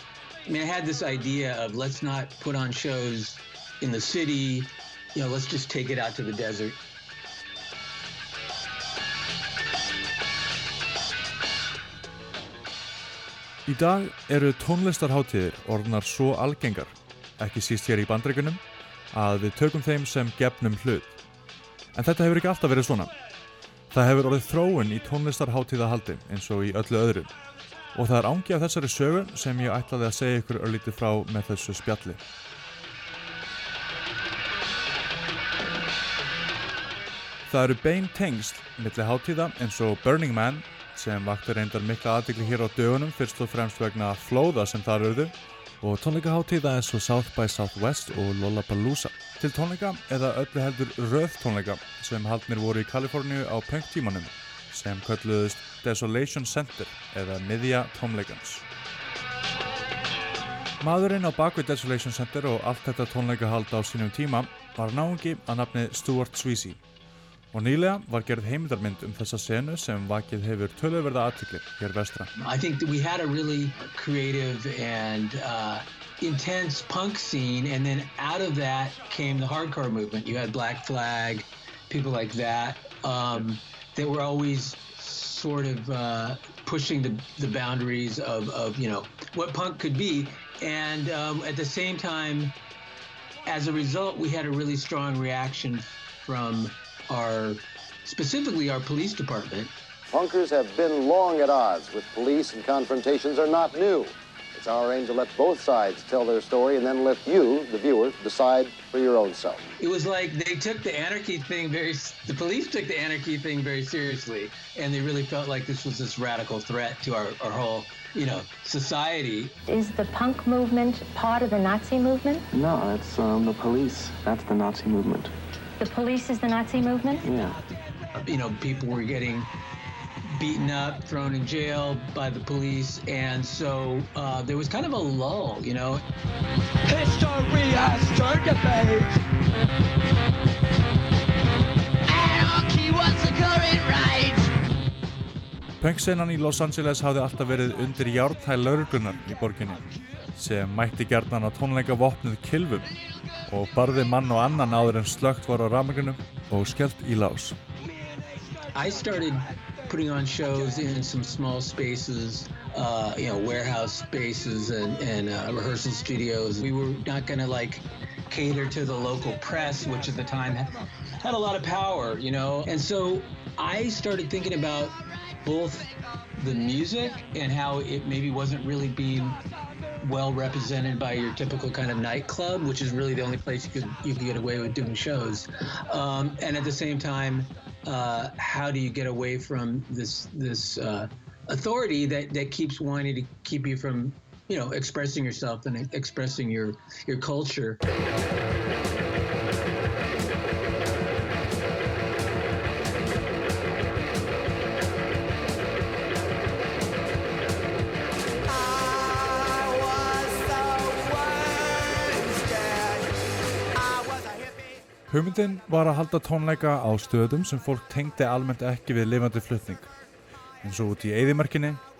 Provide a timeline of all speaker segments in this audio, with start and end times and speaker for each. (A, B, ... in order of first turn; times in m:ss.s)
0:00.4-0:06.8 A
0:13.6-0:21.1 B
0:21.9-0:23.1 B
0:23.9-0:27.3 B
0:27.9-0:32.2 B
0:37.5-0:58.6 B
1:00.8-1:06.8 B
1:07.5-1:12.3 B
1:12.4-1:32.5 A
1:33.4-1:39.7 A
1:40.1-1:49.6 C
1:49.8-1:59.5 A
1:59.7-2:02.4 D
2:02.5-2:05.3 E
2:05.8-2:07.2 D
2:07.2-2:07.6 E
2:08.2-2:09.5 A
2:10.3-2:16.0 A
2:16.9-2:19.1 F
2:22.1-2:24.5 F
2:25.8-2:32.9 B
2:33.5-2:37.6 B
2:38.7-2:59.4 A
3:00.0-3:17.8 A
3:28.7-3:33.0 F
3:33.8-3:34.3 F
3:35.1-3:39.9 B
3:40.6-3:41.8 B